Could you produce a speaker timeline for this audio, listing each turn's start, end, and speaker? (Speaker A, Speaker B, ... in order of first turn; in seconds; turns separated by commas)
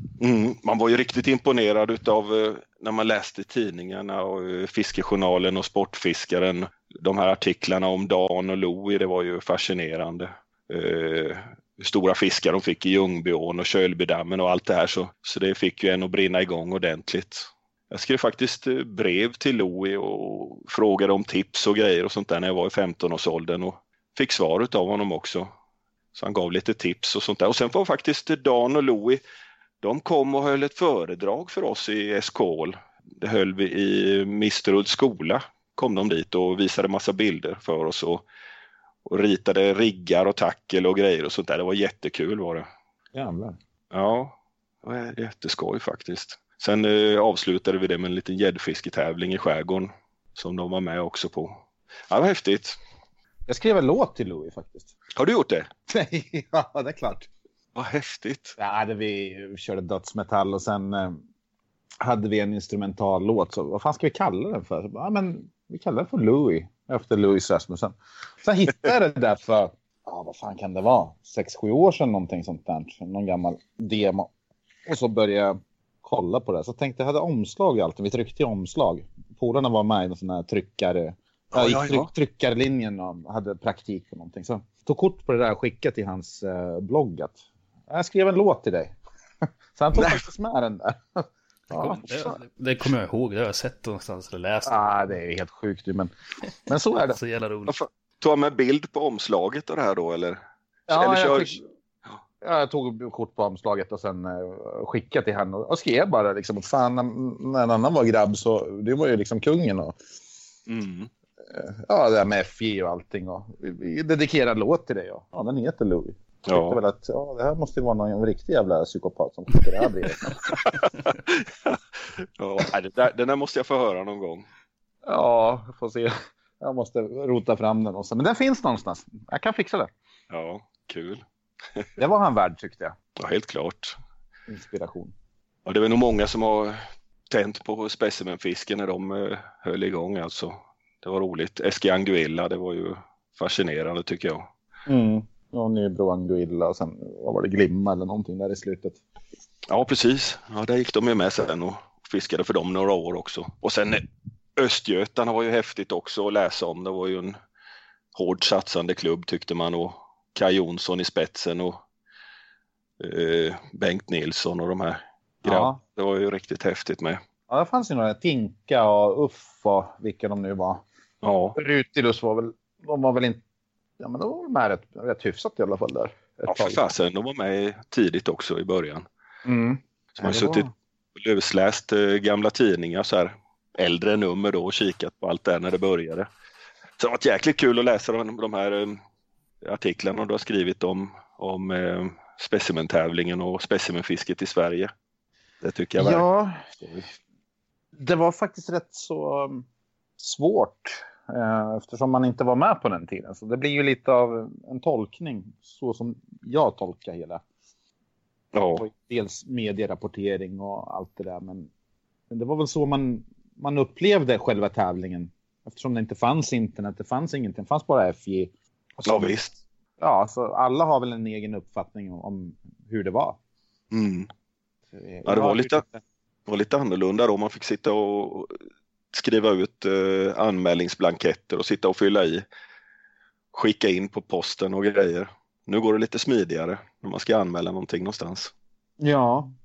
Speaker A: 0.2-25.5, Speaker A: 26.1-29.2, Speaker A: 29.8-38.2, Speaker A: 39.0-42.7, Speaker B: 43.1-43.6, Speaker A: 43.9-51.5, Speaker A: 52.1-52.8, Speaker B: 53.5-54.9, Speaker A: 55.2-55.7, Speaker B: 55.9-57.3, Speaker A: 57.7-58.5, Speaker B: 58.6-61.2, Speaker B: 62.0-74.3, Speaker B: 74.8-89.0, Speaker A: 81.5-82.1, Speaker B: 89.7-92.4, Speaker A: 90.0-90.2, Speaker C: 91.7-94.9, Speaker B: 94.6-96.1, Speaker B: 96.7-97.2, Speaker C: 97.1-97.8, Speaker A: 97.7-100.4, Speaker B: 100.9-101.6, Speaker A: 100.9-102.2, Speaker B: 102.4-110.0, Speaker A: 110.7-111.1, Speaker B: 111.4-120.5, Speaker A: 116.5-116.8, Speaker A: 120.4-124.4, Speaker B: 125.0-129.9, Speaker A: 130.3-131.2, Speaker B: 132.0-132.9, Speaker A: 133.2-133.9, Speaker B: 134.5-135.1, Speaker A: 135.7-136.8, Speaker A: 137.3-144.5, Speaker B: 144.8-149.0, Speaker A: 149.7-154.0, Speaker A: 154.6-157.3, Speaker A: 158.1-161.8, Speaker A: 163.0-167.2, Speaker B: 165.4-165.8, Speaker B: 167.5-170.8, Speaker A: 171.2-171.6, Speaker B: 171.6-173.4, Speaker B: 174.0-176.8, Speaker A: 176.5-179.0, Speaker B: 179.4-180.7, Speaker A: 180.1-186.3, Speaker A: 187.0-189.0, Speaker A: 189.6-194.9, Speaker A: 195.6-196.2, Speaker B: 196.0-197.1, Speaker B: 197.9-199.6, Speaker B: 200.2-207.4, Speaker A: 208.5-208.9, Speaker B: 208.8-211.7, Speaker B: 212.3-219.3, Speaker A: 219.1-219.6, Speaker B: 220.0-223.4, Speaker A: 223.9-224.3, Speaker B: 224.9-226.0, Speaker A: 225.2-225.8, Speaker A: 226.4-228.6, Speaker A: 229.1-232.4, Speaker A: 233.5-238.5, Speaker B: 239.0-239.5